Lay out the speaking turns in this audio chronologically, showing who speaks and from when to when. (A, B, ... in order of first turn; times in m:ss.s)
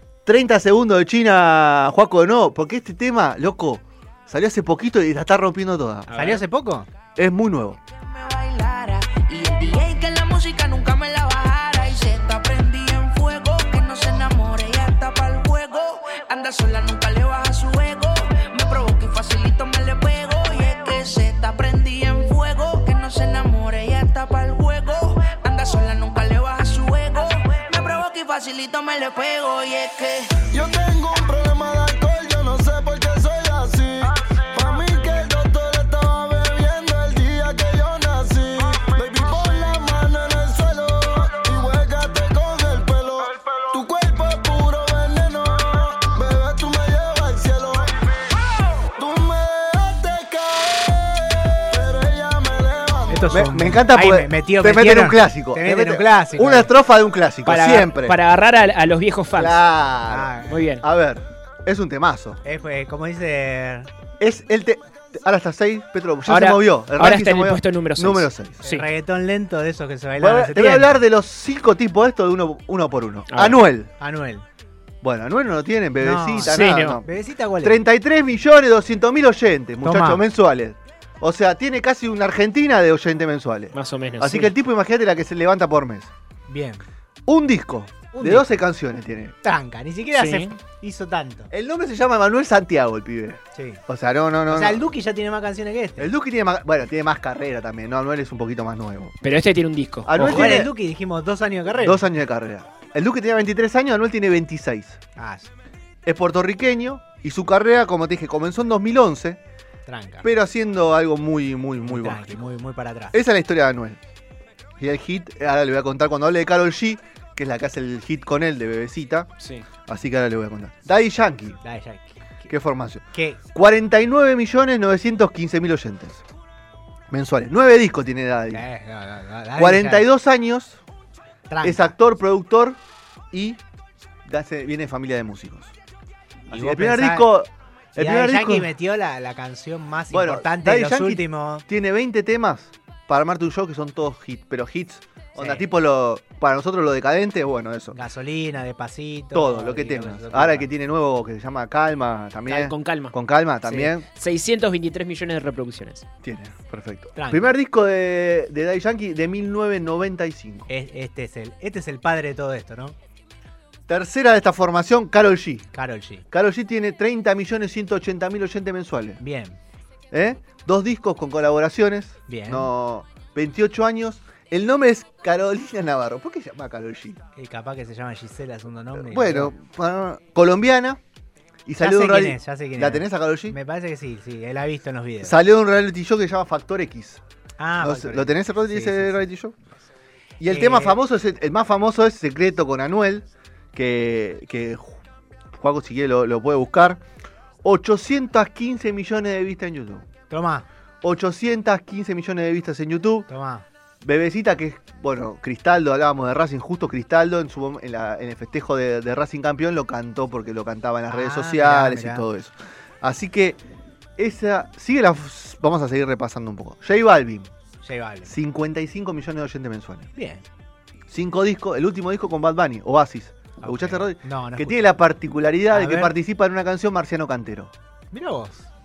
0:00.2-0:06.1 A
0:06.1-0:06.4 B
0:06.2-0:06.9 C
0:07.2-0:07.8 A
0:08.0-0:30.3 D
0:30.5-0:48.0 E
0:48.8-0:53.3 E
0:53.1-0:56.7 C
0:53.3-0:58.2 A
0:57.4-0:59.6 B
0:59.3-1:02.4 A
1:00.1-1:00.6 C
1:00.5-1:00.8 B
1:02.4-1:03.9 C
1:04.2-1:08.6 A
1:06.3-1:08.9 B
1:08.6-1:11.0 C
1:10.2-1:13.9 A
1:13.3-1:13.6 B
1:14.0-1:14.4 C
1:15.0-1:17.1 A
1:16.0-1:17.8 C
1:16.5-1:17.0 B
1:17.6-1:26.1 A
1:19.8-1:20.2 C
1:23.7-1:24.5 B
1:26.5-1:26.8 C
1:27.3-1:29.4 A
1:28.1-1:28.6 C
1:29.4-1:31.5 C
1:30.2-1:30.5 B
1:31.5-1:34.8 A
1:33.6-1:33.8 C
1:34.5-1:36.1 C
1:36.0-1:39.1 A
1:39.2-1:40.6 B
1:40.0-1:40.7 A
1:40.2-1:42.0 C
1:41.8-1:45.0 A
1:45.2-1:45.5 C
1:46.0-1:49.4 A
1:49.9-1:50.3 C
1:50.2-1:52.4 A
1:51.8-1:53.2 C
1:53.1-1:54.0 A
1:54.8-1:59.3 A
1:59.4-1:59.6 B
1:59.9-2:01.6 A
2:01.6-2:02.5 C
2:02.5-2:03.0 A
2:03.1-2:03.4 C
2:03.5-2:06.2 A
2:07.1-2:08.6 A
2:08.5-2:10.1 C
2:09.6-2:10.8 A
2:11.5-2:11.9 C
2:11.6-2:12.8 A
2:13.3-2:13.6 A
2:14.2-2:15.7 A
2:16.5-2:18.7 A
2:16.5-2:17.3 C
2:18.0-2:21.6 C
2:20.1-2:28.0 A
2:25.4-2:25.7 C
2:27.9-2:30.7 C
2:29.3-2:34.0 A
2:32.5-2:36.0 B
2:36.2-2:40.7 A
2:37.2-2:37.5 C
2:40.7-2:43.0 C
2:43.9-2:45.7 A
2:45.7-2:46.3 C
2:46.3-2:49.2 A
2:49.2-2:49.6 C
2:50.1-2:57.2 A
2:52.3-2:52.7 C
2:57.4-2:59.5 C
2:59.0-3:01.0 A
3:01.7-3:03.6 A
3:01.8-3:05.4 C
3:05.2-3:07.2 A
3:07.6-3:09.3 C
3:07.8-3:09.6 A
3:10.4-3:15.0 A
3:10.5-3:11.0 C
3:15.5-3:17.0 A
3:17.6-3:20.1 A
3:20.3-3:20.7 C
3:21.0-3:23.3 A
3:23.3-3:23.6 C
3:24.0-3:33.6 A
3:31.1-3:32.3 C
3:34.2-3:37.5 A
3:37.8-3:38.3 C
3:38.3-3:40.1 A
3:40.2-3:40.4 C
3:41.1-3:47.7 A
3:43.6-3:45.0 C
3:45.7-3:46.2 C
3:48.1-3:48.7 C